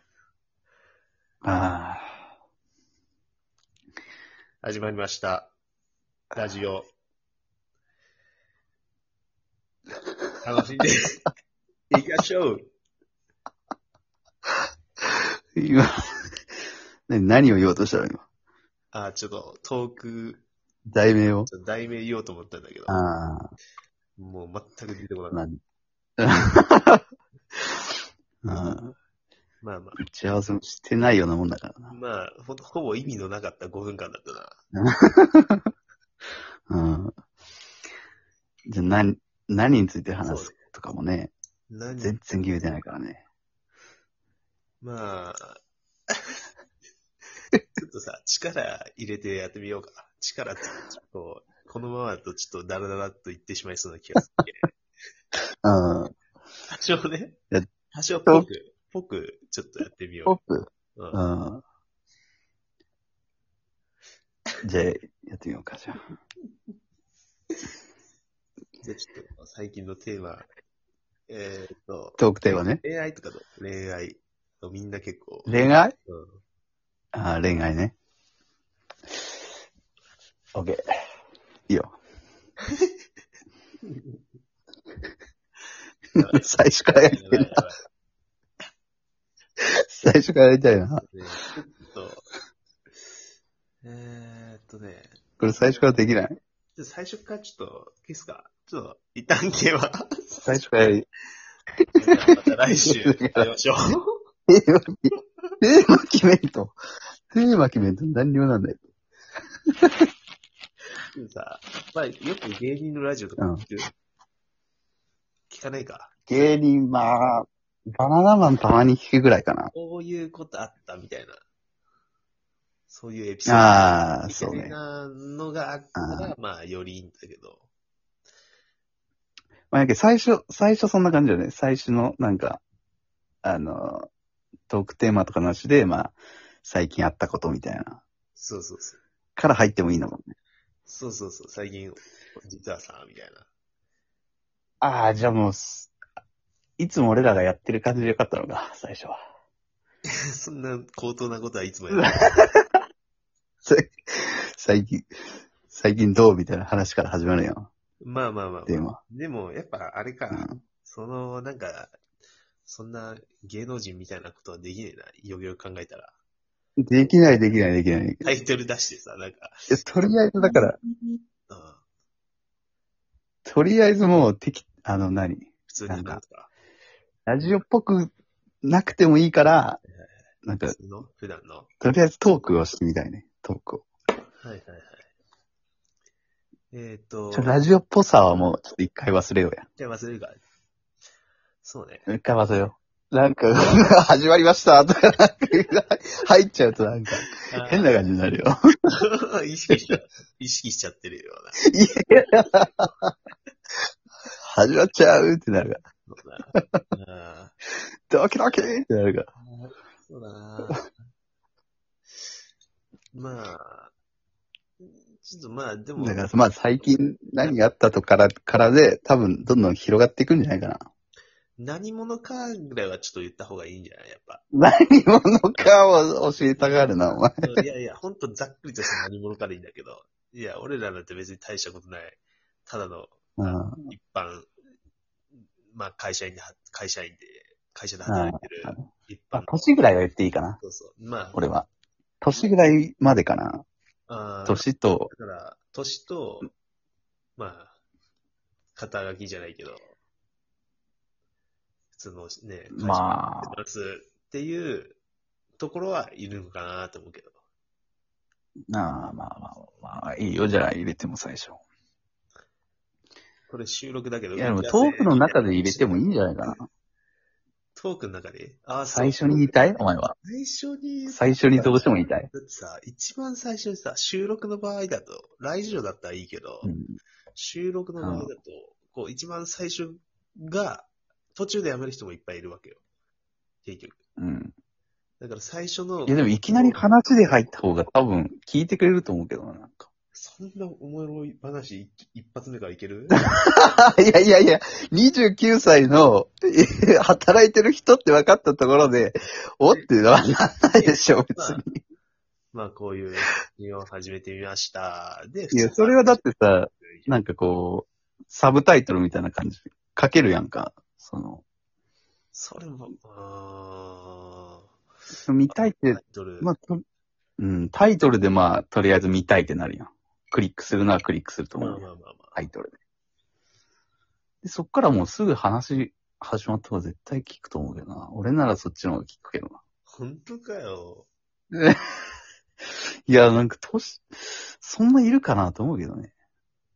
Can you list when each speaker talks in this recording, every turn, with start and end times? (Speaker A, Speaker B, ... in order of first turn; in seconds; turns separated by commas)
Speaker A: 1.4-2.2, Speaker B: 4.6-5.5, Speaker B: 6.3-6.9, Speaker B: 10.4-11.2, Speaker B: 11.9-12.7, Speaker A: 15.6-16.3, Speaker A: 17.1-18.2, Speaker B: 18.9-20.4, Speaker A: 20.9-21.5, Speaker B: 21.5-23.0, Speaker A: 22.9-23.5, Speaker B: 24.2-25.4, Speaker A: 25.3-25.6, Speaker A: 26.2-27.0, Speaker A: 28.4-28.9, Speaker B: 29.6-30.0, Speaker A: 30.0-31.9, Speaker B: 31.9-34.6, Speaker A: 34.7-35.7, Speaker A: 36.7-37.1, Speaker A: 38.7-41.3, Speaker B: 40.2-40.5, Speaker B: 41.7-42.2, Speaker A: 42.0-43.2, Speaker B: 44.8-45.6, Speaker B: 46.1-46.4, Speaker B: 47.8-54.7, Speaker A: 55.6-56.1, Speaker B: 56.7-57.4, Speaker B: 57.9-60.4, Speaker A: 60.2-61.6, Speaker B: 61.0-61.2, Speaker A: 64.6-66.0, Speaker B: 68.8-70.5, Speaker B: 71.3-72.2, Speaker A: 72.2-72.8, Speaker B: 72.8-76.4, Speaker A: 75.5-76.0, Speaker A: 77.1-78.0, Speaker A: 80.5-80.8, Speaker A: 81.7-82.0, Speaker B: 83.9-84.2, Speaker A: 86.2-87.5, Speaker B: 86.2-87.8, Speaker A: 89.6-91.1, Speaker B: 91.0-92.2, Speaker B: 93.8-96.1, Speaker A: 95.4-96.4, Speaker B: 96.8-100.9, Speaker A: 100.4-101.1, Speaker B: 102.0-104.1, Speaker A: 102.8-103.5, Speaker A: 104.5-105.0, Speaker A: 105.6-106.8, Speaker A: 107.3-108.8, Speaker B: 111.2-113.9, Speaker A: 113.4-113.6, Speaker B: 115.5-117.2, Speaker A: 116.3-117.5, Speaker A: 118.0-119.7, Speaker B: 119.7-121.4, Speaker B: 122.9-127.7, Speaker A: 123.5-124.8, Speaker A: 126.0-126.3, Speaker A: 129.7-132.6, Speaker A: 133.4-134.1, Speaker A: 134.7-138.0, Speaker B: 138.3-139.0, Speaker A: 139.3-140.3, Speaker B: 140.9-143.5, Speaker A: 144.8-145.9, Speaker A: 146.8-149.2, Speaker B: 150.1-152.2, Speaker A: 152.0-152.8, Speaker A: 153.6-155.0, Speaker A: 155.7-157.7, Speaker B: 158.0-161.9, Speaker A: 158.7-159.0, Speaker A: 160.3-160.6, Speaker B: 162.6-166.1, Speaker A: 166.8-168.3, Speaker B: 168.2-170.6, Speaker A: 169.7-170.8, Speaker B: 171.5-171.8, Speaker A: 173.4-176.2, Speaker B: 175.7-176.5, Speaker A: 177.2-179.8, Speaker A: 180.4-180.7, Speaker B: 180.6-181.7, Speaker A: 181.8-183.9, Speaker B: 184.4-185.1, Speaker B: 186.7-187.6, Speaker A: 187.3-189.7, Speaker B: 189.8-190.4, Speaker B: 191.6-192.1, Speaker A: 192.1-198.5, Speaker B: 197.4-197.9, Speaker B: 199.0-202.5, Speaker A: 201.7-203.1, Speaker A: 204.5-205.8, Speaker B: 206.1-207.5, Speaker A: 206.6-206.8, Speaker A: 208.1-209.3, Speaker B: 209.5-210.8, Speaker B: 213.1-213.9, Speaker B: 214.8-216.9, Speaker A: 216.0-220.8, Speaker B: 221.6-224.4, Speaker A: 224.5-227.5, Speaker B: 226.6-234.5, Speaker A: 233.4-233.9, Speaker B: 235.7-239.5, Speaker A: 238.1-240.6, Speaker B: 240.6-241.4, Speaker A: 241.3-241.7, Speaker A: 242.2-243.6, Speaker B: 244.1-246.5, Speaker A: 244.4-245.1, Speaker B: 247.4-247.8, Speaker B: 248.7-249.9, Speaker B: 251.9-255.0, Speaker A: 252.7-253.5, Speaker B: 255.6-257.4, Speaker A: 258.7-261.6, Speaker B: 263.5-266.6, Speaker A: 264.4-266.7, Speaker B: 267.8-269.7, Speaker A: 268.9-270.2, Speaker B: 270.2-276.7, Speaker A: 271.1-272.3, Speaker A: 276.6-277.0, Speaker B: 277.4-282.8, Speaker A: 278.0-278.3, Speaker B: 283.6-284.0, Speaker A: 284.2-284.5, Speaker B: 285.2-286.9, Speaker A: 286.1-289.9, Speaker B: 290.1-293.2, Speaker A: 293.2-301.8, Speaker B: 300.7-301.6, Speaker B: 302.5-306.2, Speaker A: 305.5-311.4, Speaker B: 306.8-307.1, Speaker B: 312.3-314.7, Speaker A: 315.3-316.8, Speaker B: 315.5-316.5, Speaker A: 317.4-321.9, Speaker B: 321.6-322.4, Speaker A: 322.4-322.7, Speaker A: 324.4-329.6, Speaker B: 329.9-331.1, Speaker A: 331.5-332.0, Speaker A: 333.1-336.1